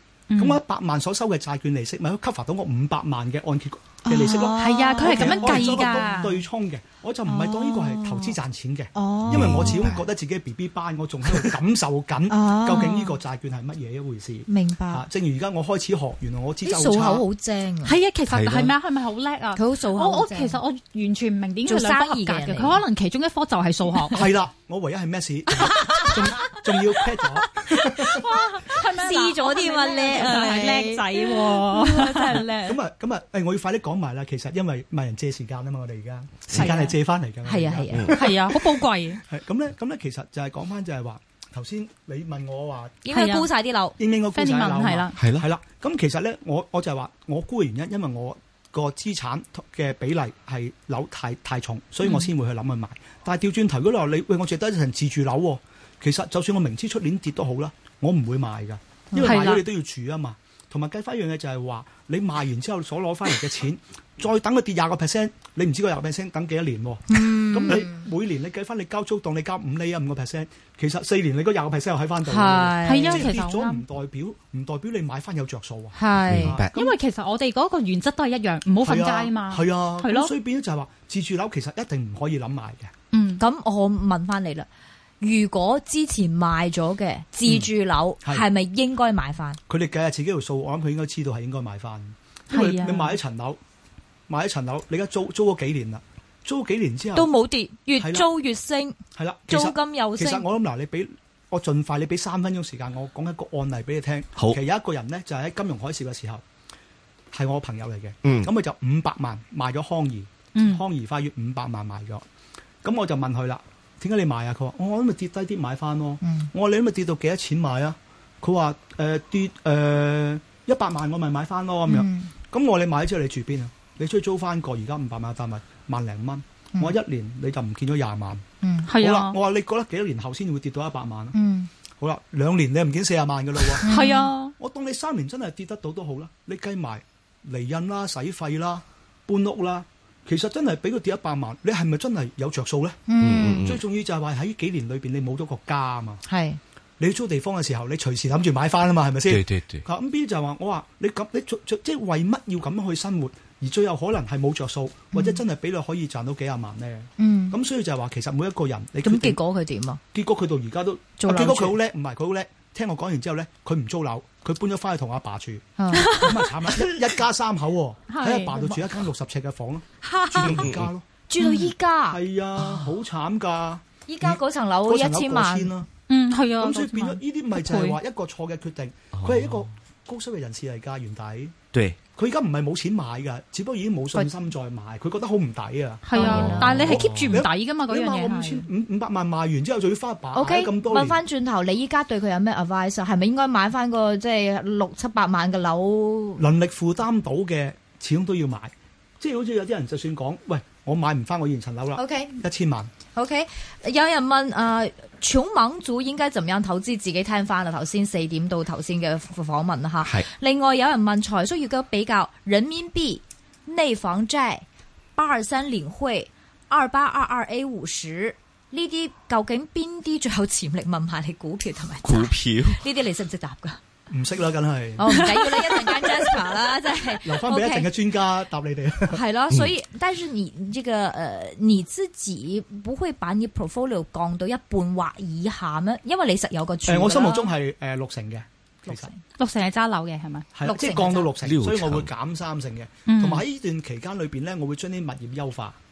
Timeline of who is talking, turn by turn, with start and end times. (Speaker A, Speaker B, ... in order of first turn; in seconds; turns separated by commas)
Speaker A: 0.3-0.6, Speaker B: 0.4-17.2, Speaker C: 4.0-6.4, Speaker A: 4.6-6.3, Speaker C: 7.3-8.4, Speaker C: 8.9-9.9, Speaker D: 9.3-10.0, Speaker C: 12.3-13.2, Speaker C: 14.5-15.1, Speaker C: 16.6-18.0, Speaker A: 17.8-24.3, Speaker D: 18.3-18.8, Speaker C: 19.6-20.6, Speaker C: 21.7-22.8, Speaker B: 24.1-28.3, Speaker C: 25.8-26.1, Speaker A: 25.8-26.5, Speaker A: 27.6-32.8, Speaker C: 28.0-32.5, Speaker B: 32.6-43.0, Speaker C: 36.6-36.9, Speaker A: 36.6-36.9, Speaker C: 37.5-38.2, Speaker A: 38.1-39.2, Speaker C: 43.0-44.0, Speaker A: 43.1-43.5, Speaker B: 44.0-76.7, Speaker A: 44.3-45.2, Speaker D: 45.2-45.5, Speaker A: 52.0-52.3, Speaker C: 59.1-59.4, Speaker A: 59.2-59.6, Speaker C: 67.1-68.0, Speaker C: 72.2-73.3, Speaker A: 72.8-73.8, Speaker C: 76.0-76.5, Speaker D: 76.2-76.9, Speaker A: 76.7-80.3, Speaker B: 78.8-82.9, Speaker A: 83.1-83.4, Speaker C: 83.4-84.7, Speaker C: 85.2-89.6, Speaker B: 89.7-93.6, Speaker A: 92.5-93.2, Speaker B: 94.3-97.3, Speaker C: 97.2-100.5, Speaker B: 98.0-98.3, Speaker B: 99.2-106.4, Speaker B: 107.3-112.2, Speaker D: 108.2-108.5, Speaker A: 110.5-110.8, Speaker B: 112.8-128.4, Speaker C: 116.2-116.5, Speaker C: 121.9-122.3, Speaker C: 128.6-128.9, Speaker A: 128.9-129.4, Speaker B: 129.0-131.4, Speaker C: 131.3-131.7, Speaker B: 132.0-134.0, Speaker A: 133.8-134.5, Speaker C: 133.8-134.3, Speaker B: 134.6-143.0, Speaker C: 143.1-143.7, Speaker D: 143.2-143.8, Speaker B: 143.6-146.2, Speaker C: 146.3-146.6, Speaker B: 147.0-159.4, Speaker D: 149.2-149.8, Speaker C: 155.1-155.4, Speaker C: 157.2-157.6, Speaker C: 159.0-160.0, Speaker B: 160.1-171.1, Speaker C: 161.2-161.8, Speaker C: 165.8-166.5, Speaker A: 165.9-166.4, Speaker A: 168.1-168.7, Speaker C: 170.0-170.7, Speaker D: 170.4-170.9, Speaker C: 171.3-172.2, Speaker A: 171.4-171.7, Speaker B: 172.1-175.9, Speaker C: 174.1-175.8, Speaker A: 176.1-178.0, Speaker B: 176.6-181.6, Speaker D: 181.7-182.0, Speaker B: 182.1-191.2, Speaker A: 186.1-188.7, Speaker C: 186.1-187.1, Speaker D: 186.9-187.4, Speaker C: 190.3-196.4, Speaker B: 196.4-202.9, Speaker C: 201.9-202.4, Speaker C: 203.1-214.7, Speaker C: 215.2-223.8, Speaker D: 222.0-222.8, Speaker B: 224.1-225.1, Speaker C: 225.0-227.9, Speaker A: 225.1-226.0, Speaker B: 227.2-229.2, Speaker C: 229.1-237.5, Speaker B: 236.9-239.1, Speaker C: 238.9-239.2, Speaker A: 239.4-240.5, Speaker B: 240.6-245.8, Speaker C: 240.6-241.3, Speaker D: 241.4-242.1, Speaker A: 243.1-243.4